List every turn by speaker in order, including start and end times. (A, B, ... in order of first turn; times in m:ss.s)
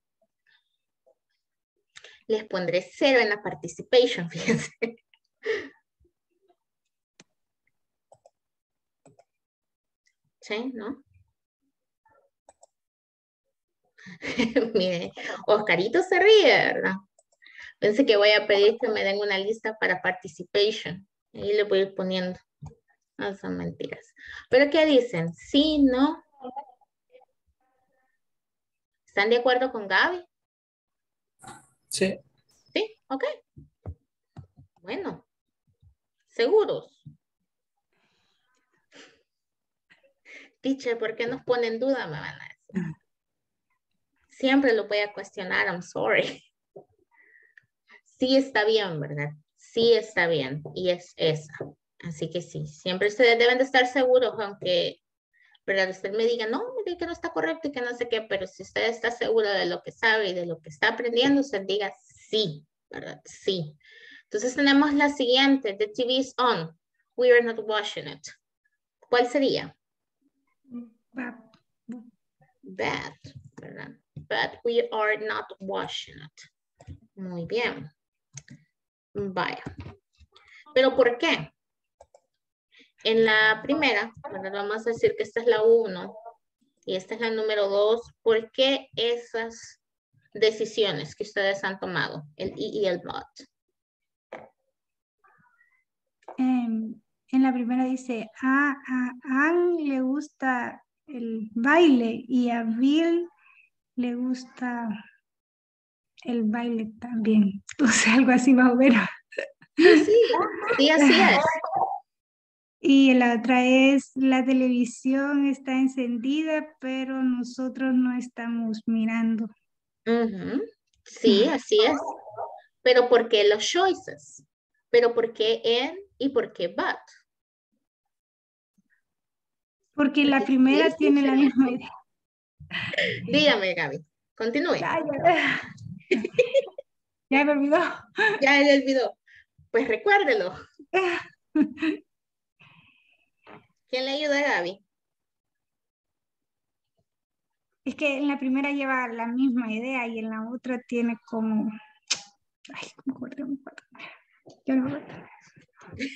0:02.3-0:04.9 A
0:10.4-0:11.0 A
0:14.2-0:17.0 A
0:17.8-0:22.4 A
0:23.2-0:26.2 A
0:29.1-0:30.3 A
0:32.7-0:33.3 A
0:34.8-0:35.2 A
0:36.3-0:37.0 A
0:40.6-0:42.8 A
0:44.3-0:46.4 A
0:48.1-0:55.0 A
0:55.7-1:03.8 A
1:04.3-1:08.3 A
1:09.1-1:09.7 A
1:10.7-1:12.1 B
1:12.6-1:16.4 A
1:17.2-1:17.9 A
1:19.2-1:19.6 A
1:20.7-1:21.5 A
1:23.0-1:26.1 A
1:26.9-1:29.8 A
1:30.4-1:33.5 A
1:36.4-1:43.3 B
1:44.0-1:45.0 B
1:46.3-1:49.0 B
1:49.8-1:51.5 A
1:51.1-1:51.4 B
1:52.8-1:59.5 B
2:00.1-2:02.1 A
2:02.8-2:07.1 A
2:10.0-2:11.8 B
2:10.4-2:11.8 A
2:13.1-2:14.9 A
2:14.8-2:15.7 B
2:16.2-2:16.5 A
2:17.3-2:18.3 B
2:18.4-2:19.2 A
2:19.7-2:20.6 A
2:21.0-2:22.0 B
2:23.9-2:24.8 A
2:27.9-2:31.7 B
2:32.7-2:33.9 B
2:34.7-2:35.2 B